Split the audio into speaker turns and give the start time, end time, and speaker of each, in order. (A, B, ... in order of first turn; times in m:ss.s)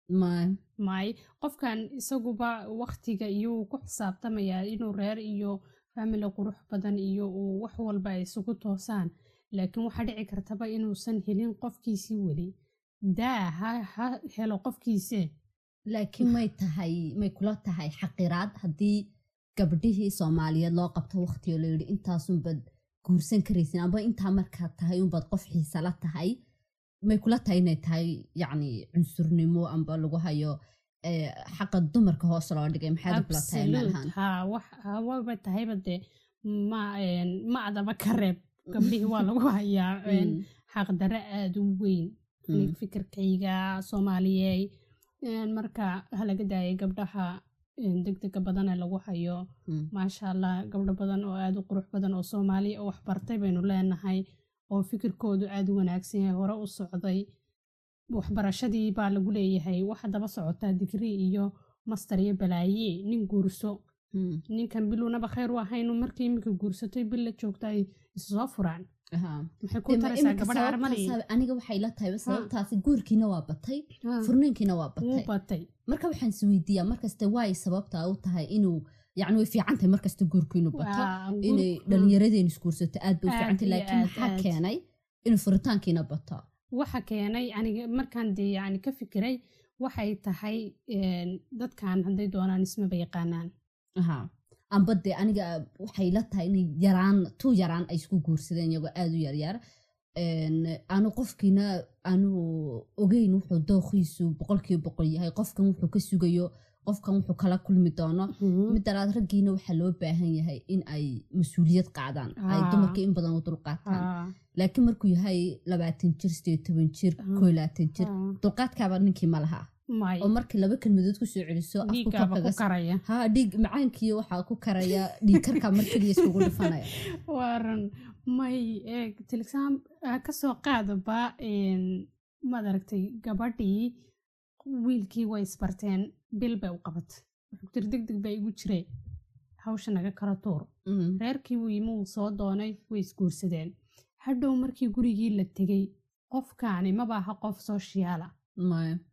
0:00.1-0:00.6 A
0:00.8-0:12.5 B
0:13.1-0:15.3 B
0:15.9-0:26.3 A
0:27.1-0:30.5 A
0:31.1-0:34.1 A
0:33.1-0:36.0 B
0:36.5-0:44.6 B
0:38.7-0:39.1 A
0:40.1-0:40.4 A
0:42.5-0:42.7 A
0:45.3-0:47.3 B
0:47.8-0:49.4 B
0:49.9-0:54.2 B
0:54.7-0:57.2 B
0:58.1-1:03.7 B
1:04.1-1:04.4 A
1:04.5-1:08.8 B
1:09.1-1:15.3 A
1:09.6-1:11.1 B
1:14.0-1:14.3 B
1:15.0-1:15.7 B
1:15.9-1:26.4 A
1:20.7-1:22.1 B
1:23.3-1:24.5 B
1:26.8-1:33.5 B
1:34.0-1:39.6 A
1:40.2-1:54.0 A
1:48.3-1:48.8 B
1:52.4-1:53.0 B
1:53.8-1:54.3 B
1:54.6-1:59.7 A
1:57.2-1:57.5 B
1:58.0-1:58.4 B
2:00.0-2:00.3 B
2:00.2-2:06.9 A
2:01.8-2:03.0 B
2:05.3-2:06.7 B
2:07.2-2:11.9 B
2:12.5-2:13.9 B
2:14.6-2:18.8 B
2:19.6-2:20.7 B
2:20.9-2:21.2 A
2:21.2-2:23.7 B
2:24.2-2:28.3 B
2:28.6-2:29.0 A